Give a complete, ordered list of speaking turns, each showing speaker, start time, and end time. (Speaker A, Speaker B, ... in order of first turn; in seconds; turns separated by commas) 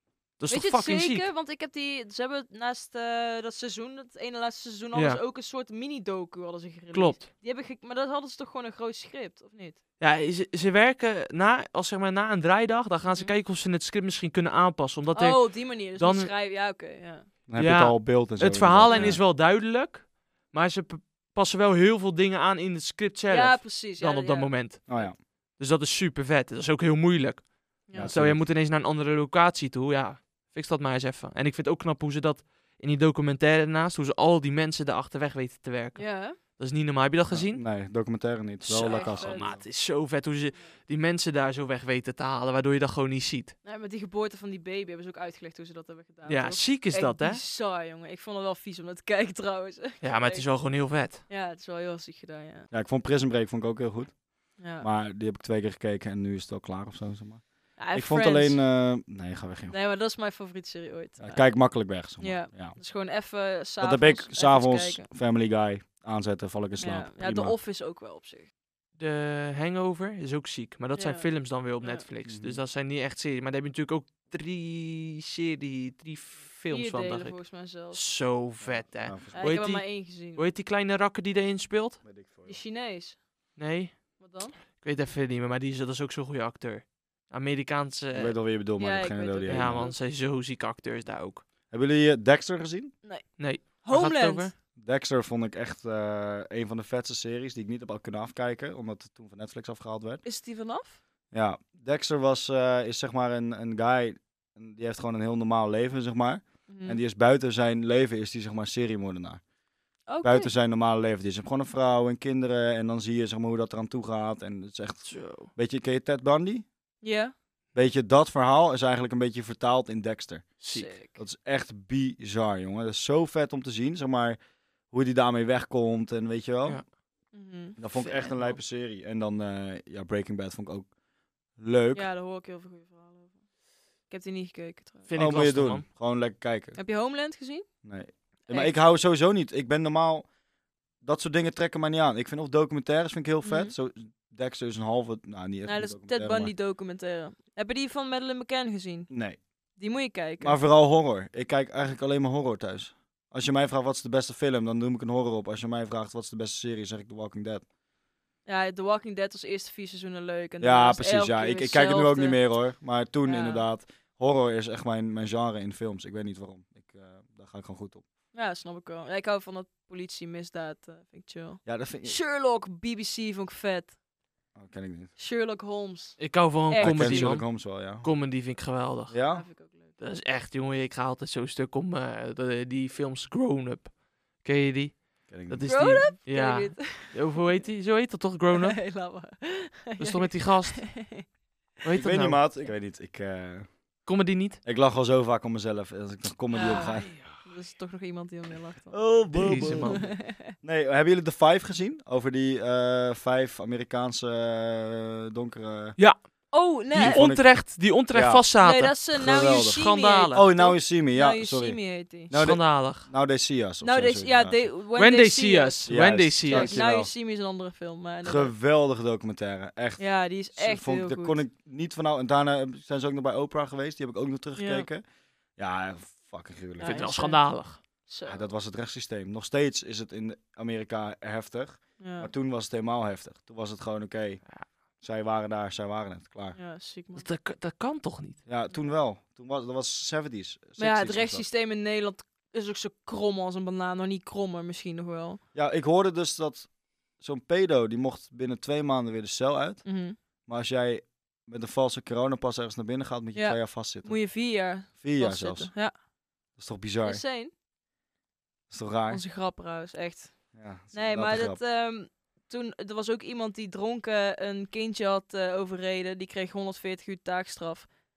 Speaker A: 0.4-1.3, Speaker B: 0.5-9.8, Speaker A: 4.9-5.2, Speaker A: 6.9-7.3, Speaker A: 10.0-16.3, Speaker B: 15.1-17.3, Speaker C: 17.5-19.2, Speaker A: 17.6-37.6, Speaker B: 18.9-19.2, Speaker B: 23.3-25.1, Speaker C: 24.9-25.2, Speaker B: 27.9-28.2, Speaker C: 27.9-28.4, Speaker B: 36.0-36.4, Speaker C: 37.3-39.6, Speaker A: 38.6-43.5, Speaker B: 38.8-39.6, Speaker B: 43.6-52.7, Speaker A: 46.2-47.4, Speaker A: 50.0-51.2, Speaker C: 52.7-59.7, Speaker B: 54.6-54.9, Speaker B: 57.8-58.6, Speaker B: 59.7-65.0, Speaker C: 61.2-62.8, Speaker C: 63.8-67.5, Speaker B: 66.8-68.5, Speaker A: 69.0-82.0, Speaker B: 70.9-72.1, Speaker C: 72.2-72.6, Speaker B: 76.7-78.0, Speaker C: 78.6-79.4, Speaker B: 79.3-80.5, Speaker C: 82.0-82.6, Speaker B: 82.5-83.2, Speaker A: 83.6-88.4, Speaker B: 84.2-84.5, Speaker C: 88.1-89.9, Speaker B: 88.8-90.0, Speaker A: 89.5-91.4, Speaker C: 91.7-92.9, Speaker B: 93.0-94.5, Speaker A: 93.4-94.5, Speaker C: 94.8-100.2, Speaker B: 100.2-101.0, Speaker C: 101.3-109.4, Speaker B: 106.7-107.0, Speaker B: 110.1-110.5, Speaker C: 110.2-116.6, Speaker A: 115.0-115.5, Speaker B: 117.0-117.3, Speaker C: 117.7-124.4, Speaker A: 120.6-120.9, Speaker B: 120.7-121.2, Speaker C: 124.9-127.0, Speaker B: 127.3-127.8, Speaker C: 127.8-130.9, Speaker A: 127.9-128.6, Speaker C: 131.5-132.1, Speaker B: 131.9-133.4, Speaker B: 134.1-135.2, Speaker A: 135.1-135.8, Speaker C: 135.2-136.8, Speaker B: 136.7-137.7, Speaker C: 137.8-140.3, Speaker B: 138.4-138.8, Speaker C: 141.0-146.5, Speaker B: 143.4-143.7, Speaker B: 145.6-149.1, Speaker C: 149.1-149.4, Speaker B: 149.7-150.6, Speaker C: 150.4-157.6, Speaker B: 158.4-162.5, Speaker C: 160.6-168.0, Speaker B: 163.2-163.7, Speaker B: 168.3-173.9, Speaker C: 171.6-172.2, Speaker C: 174.5-175.1, Speaker B: 175.2-177.4, Speaker A: 176.2-179.2, Speaker C: 176.8-178.1, Speaker C: 179.1-179.4, Speaker B: 179.3-180.0, Speaker A: 180.0-188.8, Speaker C: 185.3-186.1, Speaker B: 185.7-187.3, Speaker B: 188.5-191.3, Speaker A: 190.0-191.0, Speaker A: 191.8-192.4, Speaker C: 191.9-194.0, Speaker A: 194.0-194.6, Speaker C: 194.6-197.2, Speaker B: 196.5-200.5, Speaker A: 196.8-197.4, Speaker C: 198.9-206.2, Speaker A: 199.3-200.1, Speaker B: 206.5-207.3, Speaker A: 206.9-210.5, Speaker C: 206.9-208.5, Speaker B: 208.6-212.3, Speaker C: 209.1-214.7, Speaker A: 212.3-213.1, Speaker B: 213.8-215.9, Speaker A: 214.9-216.7, Speaker C: 215.9-217.1, Speaker B: 216.5-218.5, Speaker C: 218.2-225.0, Speaker B: 220.0-221.4, Speaker B: 224.5-224.9, Speaker C: 225.6-227.3, Speaker B: 226.8-228.5, Speaker A: 226.8-227.8, Speaker C: 228.2-234.5, Speaker B: 232.0-232.3, Speaker C: 235.0-236.6, Speaker B: 236.5-237.3, Speaker A: 237.1-238.4, Speaker C: 238.4-241.5, Speaker B: 240.8-245.4, Speaker C: 245.5-249.9, Speaker B: 249.8-250.2, Speaker C: 250.5-255.8, Speaker B: 253.3-255.9, Speaker C: 256.5-257.2, Speaker B: 257.0-257.5, Speaker C: 258.7-259.2, Speaker B: 259.1-260.4, Speaker C: 260.5-261.6, Speaker B: 260.9-267.9